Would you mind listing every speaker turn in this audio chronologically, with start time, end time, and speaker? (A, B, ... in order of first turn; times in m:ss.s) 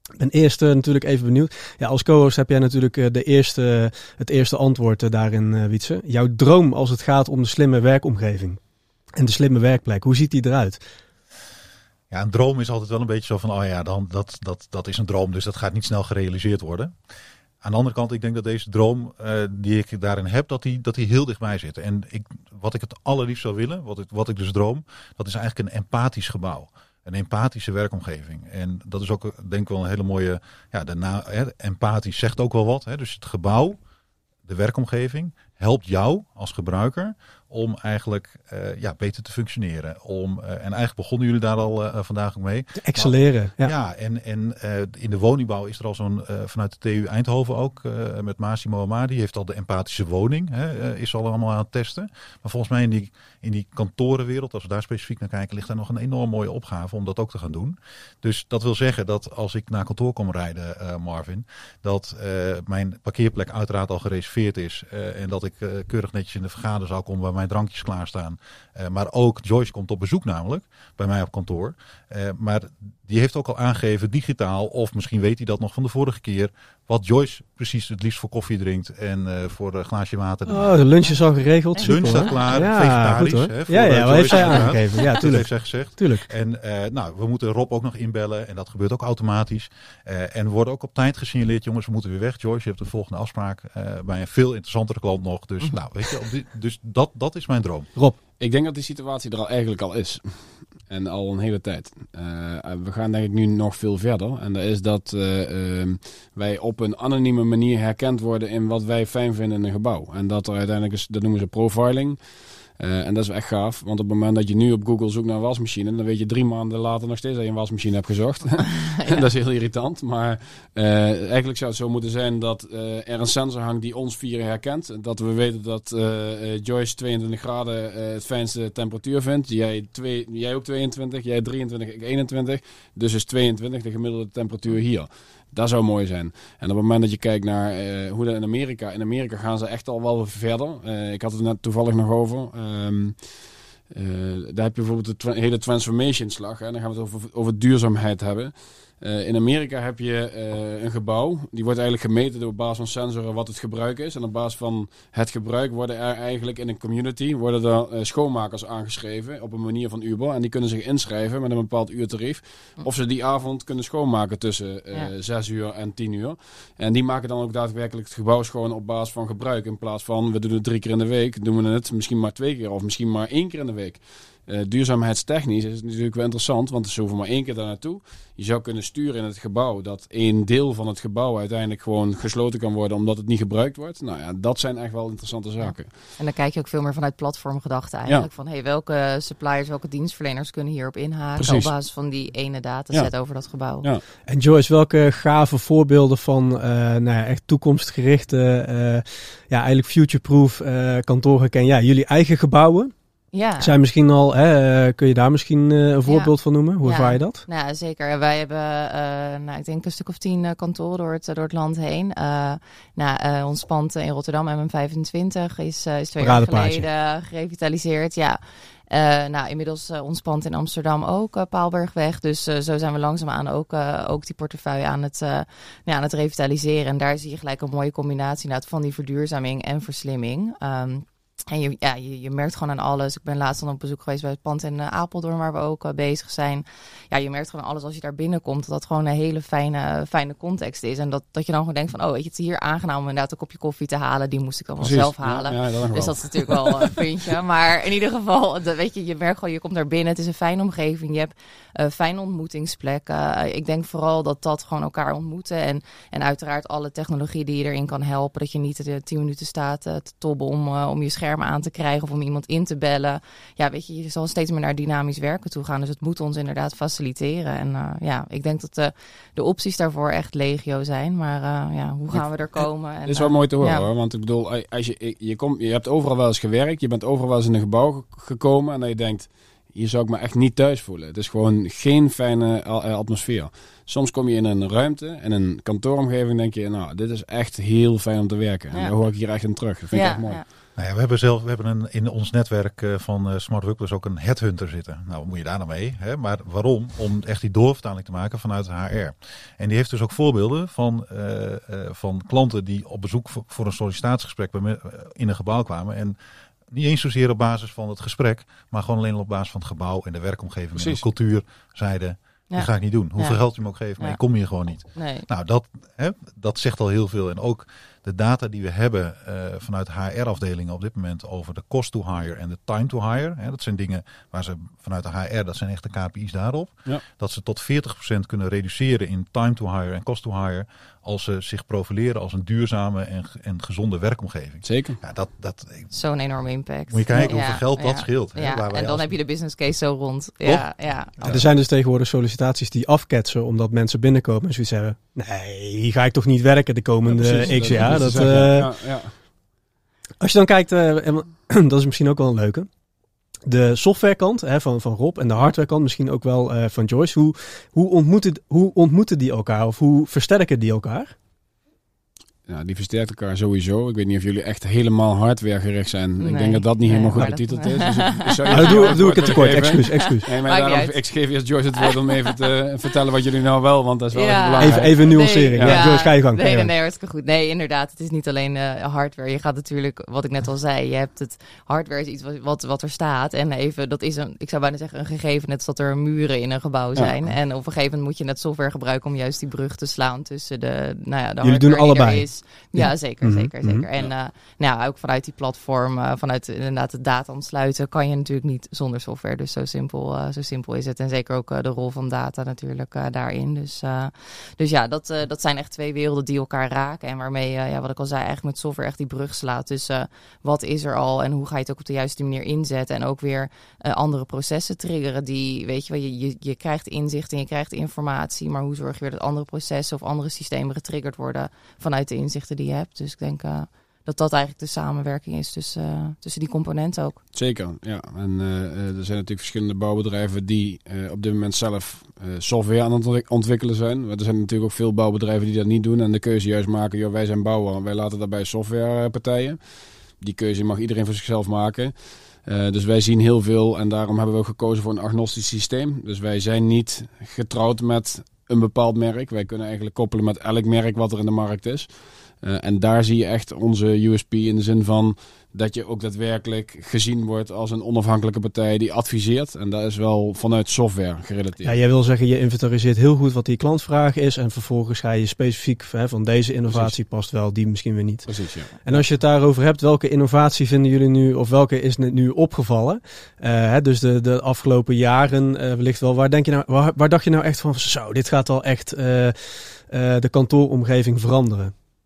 0:00.2-0:08.6 A
0:09.2-0:10.8 A
0:12.1-0:17.0 B
0:17.6-0:33.8 B
0:34.5-1:20.9 B
0:42.8-0:43.7 A
1:20.5-1:26.3 A
1:21.7-1:22.4 C
1:21.8-1:37.9 B
1:38.4-1:52.2 D
1:52.7-2:23.3 D
1:58.8-1:59.2 C
2:23.9-3:05.9 D
3:05.6-3:13.9 C
3:11.4-3:11.7 D
3:14.3-3:22.9 A
3:23.3-3:23.8 C
3:23.6-3:27.4 A
3:26.1-4:33.9 C
3:36.2-3:36.8 A
4:04.8-4:07.0 D
4:33.0-4:50.4 D
4:49.9-4:50.4 C
4:50.8-5:06.2 B
5:06.7-5:35.9 B
5:10.8-5:11.0 D
5:12.5-5:13.4 C
5:14.9-5:15.3 C
5:34.6-5:35.0 D
5:35.9-5:41.1 C
5:36.9-5:39.1 B
5:40.4-5:41.5 B
5:41.3-5:48.7 A
5:47.1-5:49.1 D
5:50.2-5:52.7 A
5:53.5-6:01.2 A
6:02.5-6:15.9 D
6:06.2-6:11.0 C
6:08.5-6:10.3 A
6:11.8-6:12.4 C
6:14.1-7:07.2 C
6:14.6-6:16.7 A
6:31.4-6:33.9 A
7:07.3-7:41.8 D
7:41.6-7:59.4 A
7:46.7-7:47.0 D
7:48.3-7:49.1 D
7:59.9-8:01.7 A